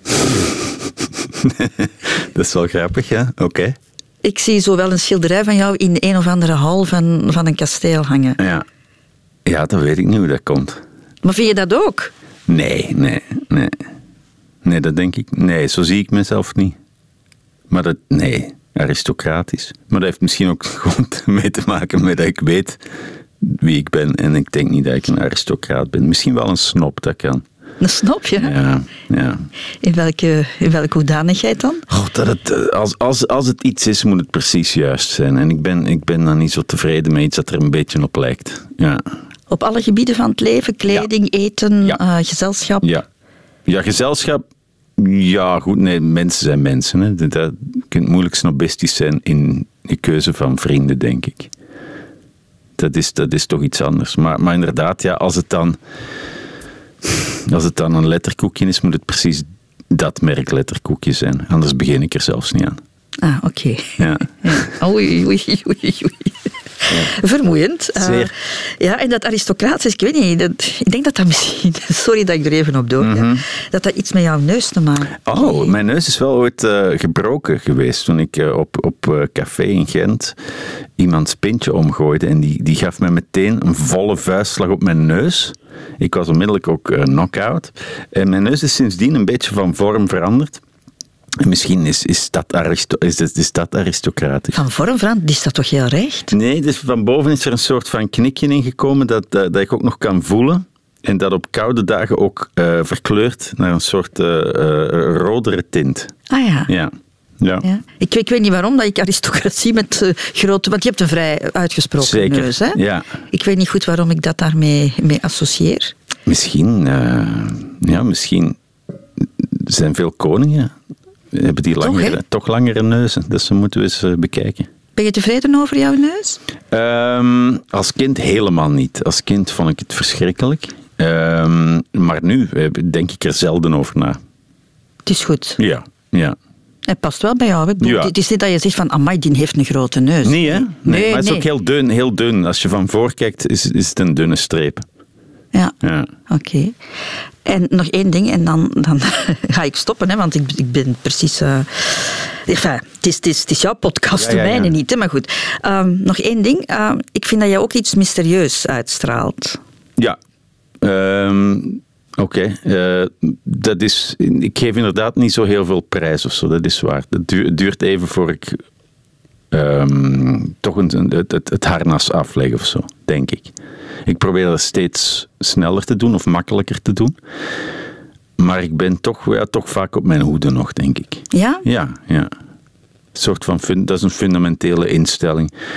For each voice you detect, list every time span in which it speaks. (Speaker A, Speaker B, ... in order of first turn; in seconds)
Speaker A: 1.2-3.8, 8.4-8.6, 9.4-10.8, 12.5-13.8, 14.6-16.8, 17.7-22.8, 23.4-27.4, 28.4-29.4, 31.9-39.0, 43.6-44.4, 45.0-51.5, 52.8-55.8, 57.0-62.8, 64.0-64.7, 68.0-68.3, 73.0-73.4, 75.2-80.3, 81.0-90.6, 91.4-94.6, 96.3-106.1, 106.7-107.7, 112.0-113.1, 116.2-118.6, 119.2-120.7, 121.3-124.7, 126.7-134.2, 135.6-136.4, 137.8-138.1, 140.2-144.8, 145.8-146.1, 154.2-154.7, 160.8-168.6, 169.5-173.5, 174.1-177.2, 178.4-182.3, 183.1-185.5
Speaker B: 4.2-8.4, 11.2-12.1, 27.8-28.6, 29.8-31.9, 39.5-42.9, 63.2-75.7, 94.5-96.3, 106.3-106.7, 107.6-112.8, 113.3-115.9, 121.8-122.2, 125.0-126.4, 135.1-135.6, 136.9-141.4, 146.3-146.8, 147.4-159.6, 181.3-181.6